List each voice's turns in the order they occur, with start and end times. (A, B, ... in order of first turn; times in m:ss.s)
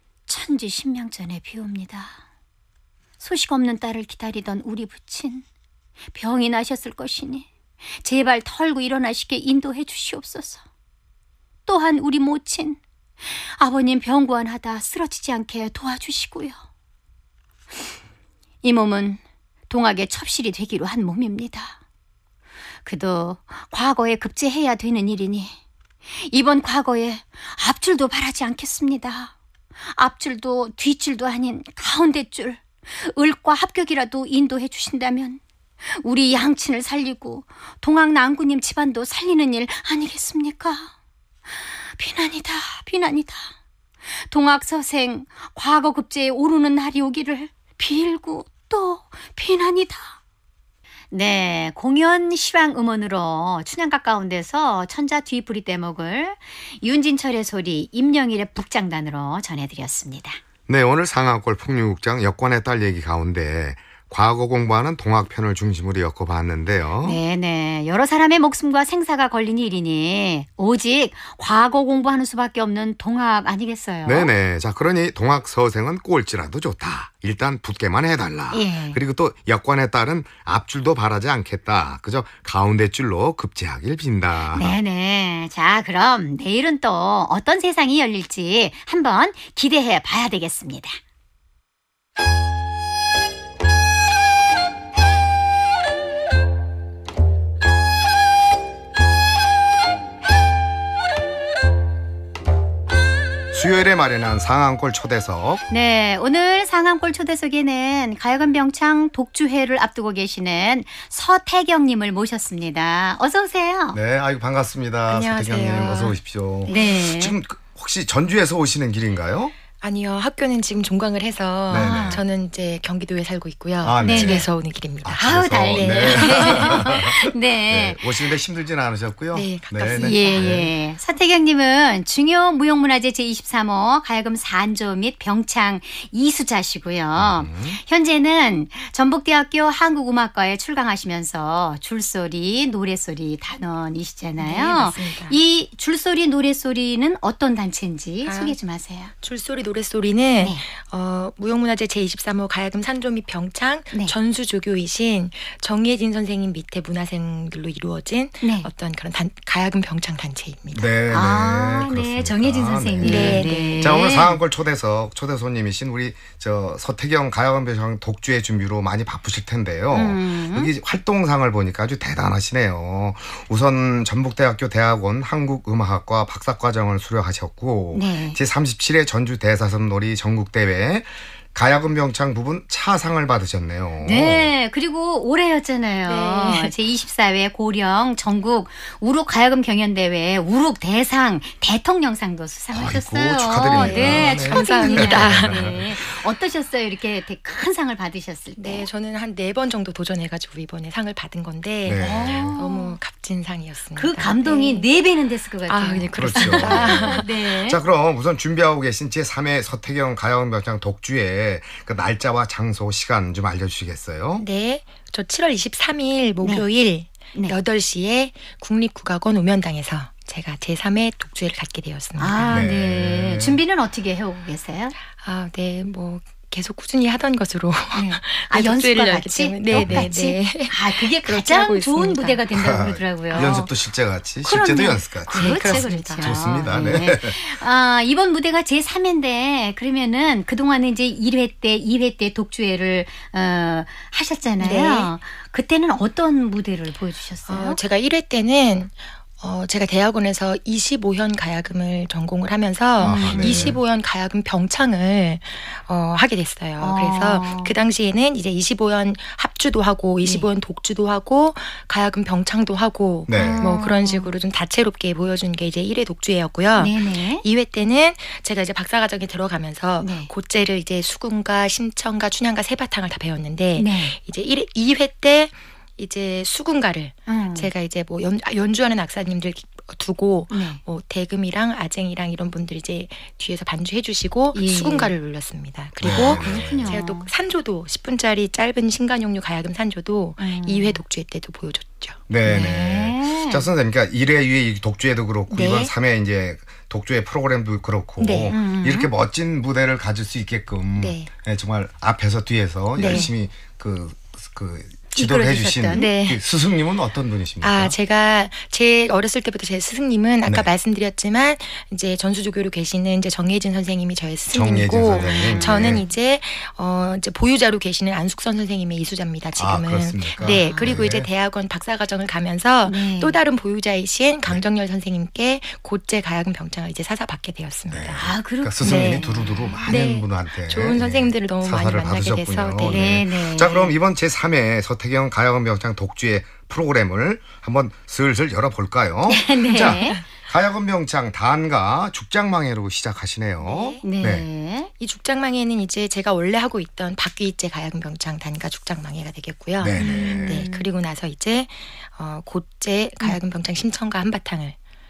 0:00.3-0:02.2 A
0:03.2-0:05.4 A
0:06.2-0:07.5 A
0:08.0-0:10.6 A
0:11.7-0:12.8 A
0:13.6-0:16.6 A
0:18.6-0:21.8 A
0:22.8-0:25.6 A
0:26.2-0:29.3 A
0:29.9-0:35.4 A
0:36.0-0:40.9 A
0:42.0-0:43.5 A
0:44.3-0:50.2 A
0:51.1-1:00.4 A
1:00.7-1:07.2 B
1:07.0-1:14.3 A
1:14.0-1:24.8 B
1:18.5-1:19.0 A
1:24.5-1:31.0 A
1:43.5-1:45.6 B
1:45.7-1:54.0 A
1:53.9-1:59.6 B
1:55.1-1:56.8 C
1:56.7-1:57.4 A
1:59.8-2:07.2 C
2:01.7-2:02.2 B
2:01.7-2:02.2 A
2:03.8-2:04.5 B
2:04.0-2:04.5 A
2:05.0-2:10.7 B
2:05.2-2:08.0 A
2:09.3-2:10.7 C
2:09.9-2:29.1 A
2:17.2-2:17.8 B
2:24.4-2:25.4 C
2:28.3-2:28.6 C
2:29.2-2:40.9 C
2:30.4-2:30.7 A
2:38.4-2:38.7 A
2:40.7-3:04.5 B
2:41.1-2:44.4 A
2:43.0-2:44.0 C
2:49.9-2:50.7 A
2:57.9-2:58.4 A
3:04.0-3:18.9 A
3:06.1-3:06.7 C
3:12.7-3:16.0 B
3:13.7-3:15.8 C
3:18.6-3:24.9 C
3:21.8-3:22.6 B
3:22.0-3:23.0 A
3:24.0-3:27.8 A
3:25.7-3:27.4 C
3:26.2-3:34.4 B
3:34.4-3:42.7 C
3:42.2-3:45.0 A
3:42.5-3:43.6 B
3:45.1-3:52.4 C
3:47.9-3:53.7 A
3:49.8-3:50.1 B
3:52.6-3:57.4 B
3:53.3-3:53.7 C
3:54.4-4:07.8 A
3:55.3-3:56.4 C
4:04.6-4:05.1 C
4:07.5-4:52.2 C
4:13.0-4:13.8 B
4:13.0-4:13.8 A
4:16.8-4:17.8 A
4:20.2-4:20.5 A
4:23.3-4:23.7 B
4:23.3-4:24.3 A
4:26.8-4:27.4 A
4:30.0-4:30.3 A
4:33.8-4:34.2 A
4:37.3-4:37.7 A
4:40.5-4:40.8 A
4:44.5-4:45.2 A
4:46.0-4:47.0 B
4:46.0-4:47.3 A
4:50.4-4:51.0 A
4:52.3-5:08.0 B
4:52.4-4:53.7 A
4:55.5-4:55.9 C
4:58.2-4:58.6 C
4:58.5-4:59.1 A
5:01.0-5:01.3 C
5:03.0-5:03.3 C
5:03.0-5:03.3 A
5:05.1-5:06.1 A
5:05.9-5:06.4 C
5:07.6-5:29.3 C
5:14.5-5:16.0 B
5:15.1-5:16.0 A
5:19.6-5:21.3 B
5:20.4-5:21.0 A
5:22.8-5:23.4 A
5:27.9-5:44.5 B
5:28.2-5:29.8 A
5:29.8-5:33.2 C
5:32.8-5:33.9 A
5:39.3-5:40.2 A
5:39.7-5:40.2 C
5:43.6-5:44.1 C
5:44.0-5:44.9 A
5:45.0-5:54.8 C
5:49.8-5:50.6 B
5:50.0-5:50.9 A